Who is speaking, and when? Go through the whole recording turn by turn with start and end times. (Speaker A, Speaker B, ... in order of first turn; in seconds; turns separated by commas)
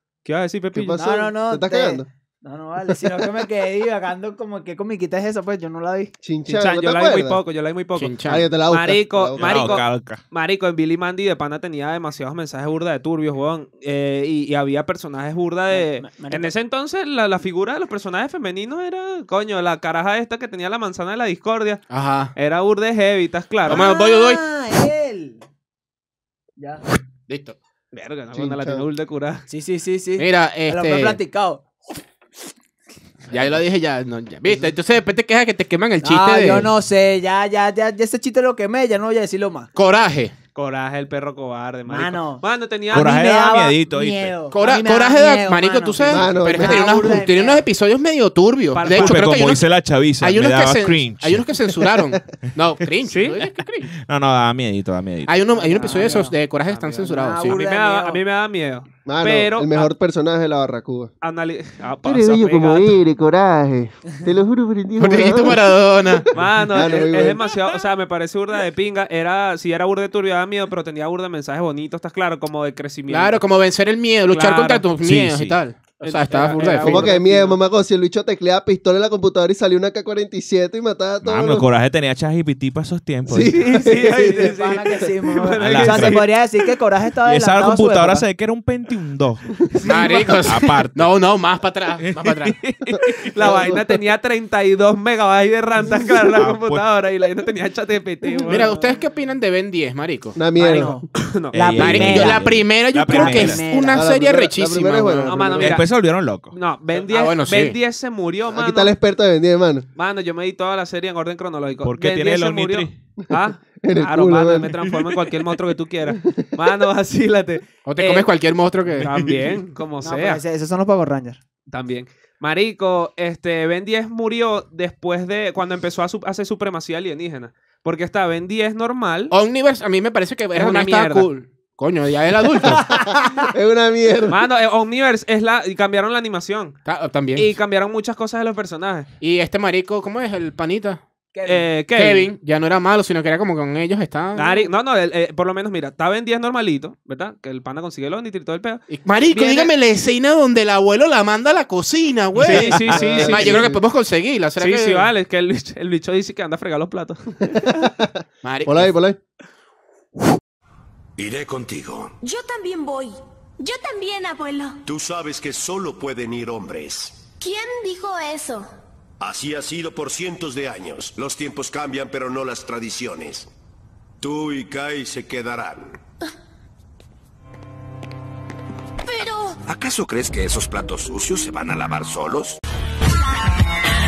Speaker A: 0.2-1.0, Speaker B: 0.7-2.1, Speaker C: 1.0-6.1, Speaker B: 2.9-3.5, Speaker B: 6.2-7.4, Speaker A: 6.5-21.9, Speaker D: 8.0-8.5, Speaker B: 8.3-9.8, Speaker E: 9.4-10.2, Speaker C: 15.7-16.5, Speaker D: 21.9-22.3, Speaker A: 22.4-23.8, Speaker D: 23.7-24.4, Speaker C: 23.7-25.4, Speaker D: 27.3-27.6, Speaker A: 27.9-29.4, Speaker B: 28.3-28.8, Speaker C: 29.5-31.7, Speaker D: 30.2-31.2, Speaker D: 33.3-36.7, Speaker C: 36.0-39.7, Speaker D: 39.8-40.3, Speaker A: 40.5-43.1, Speaker C: 41.9-47.7, Speaker E: 42.9-44.4, Speaker D: 44.5-49.7, Speaker B: 46.1-47.2, Speaker A: 48.7-49.5, Speaker E: 48.9-51.5, Speaker D: 50.2-53.9, Speaker A: 53.1-53.4, Speaker E: 53.9-55.4, Speaker D: 55.3-57.6, Speaker C: 55.5-56.3, Speaker A: 55.9-59.9, Speaker C: 57.0-58.2, Speaker B: 59.1-61.1, Speaker A: 61.2-63.0, Speaker B: 62.0-67.5, Speaker D: 65.0-66.3, Speaker A: 66.3-73.4, Speaker D: 73.1-77.1, Speaker A: 74.3-74.9, Speaker E: 75.0-75.6, Speaker A: 76.0-77.6, Speaker B: 76.8-81.7, Speaker E: 81.2-83.8, Speaker B: 83.3-84.5, Speaker A: 83.5-86.3, Speaker C: 84.2-88.2, Speaker E: 85.6-86.2, Speaker E: 87.3-89.4, Speaker A: 89.8-90.4, Speaker D: 89.8-92.5, Speaker E: 90.4-91.1, Speaker E: 92.0-93.1, Speaker B: 92.9-94.0, Speaker A: 93.0-98.7, Speaker E: 96.2-96.8, Speaker D: 98.5-100.4, Speaker B: 100.3-101.0, Speaker C: 100.5-102.5, Speaker A: 101.2-101.5, Speaker E: 101.5-103.7, Speaker D: 101.8-105.5, Speaker C: 103.1-104.0, Speaker B: 103.9-105.8, Speaker A: 105.2-105.9, Speaker E: 105.6-106.5, Speaker A: 106.5-108.9, Speaker D: 107.0-107.8, Speaker B: 108.5-109.9, Speaker A: 110.0-118.3, Speaker E: 111.8-113.0, Speaker B: 113.8-114.8, Speaker D: 117.8-119.5, Speaker A: 119.0-120.4, Speaker C: 120.0-121.4, Speaker A: 121.7-129.3, Speaker D: 129.3-133.0, Speaker A: 130.5-131.3, Speaker B: 132.8-134.4, Speaker C: 133.0-133.4, Speaker A: 134.3-136.8, Speaker D: 136.9-137.6, Speaker A: 137.3-139.1, Speaker D: 139.2-141.0, Speaker C: 141.3-141.7, Speaker A: 141.5-142.3, Speaker D: 142.0-144.7, Speaker A: 144.4-149.7, Speaker D: 148.9-155.1, Speaker A: 152.4-153.7, Speaker E: 152.5-152.9, Speaker B: 152.9-153.8, Speaker A: 154.6-157.9, Speaker B: 157.5-159.2, Speaker D: 158.4-158.9, Speaker F: 161.2-162.2, Speaker G: 162.2-164.8, Speaker F: 164.8-167.2, Speaker G: 167.4-168.7, Speaker F: 169.2-173.5, Speaker F: 174.2-176.0, Speaker G: 179.1-179.6, Speaker F: 179.7-182.6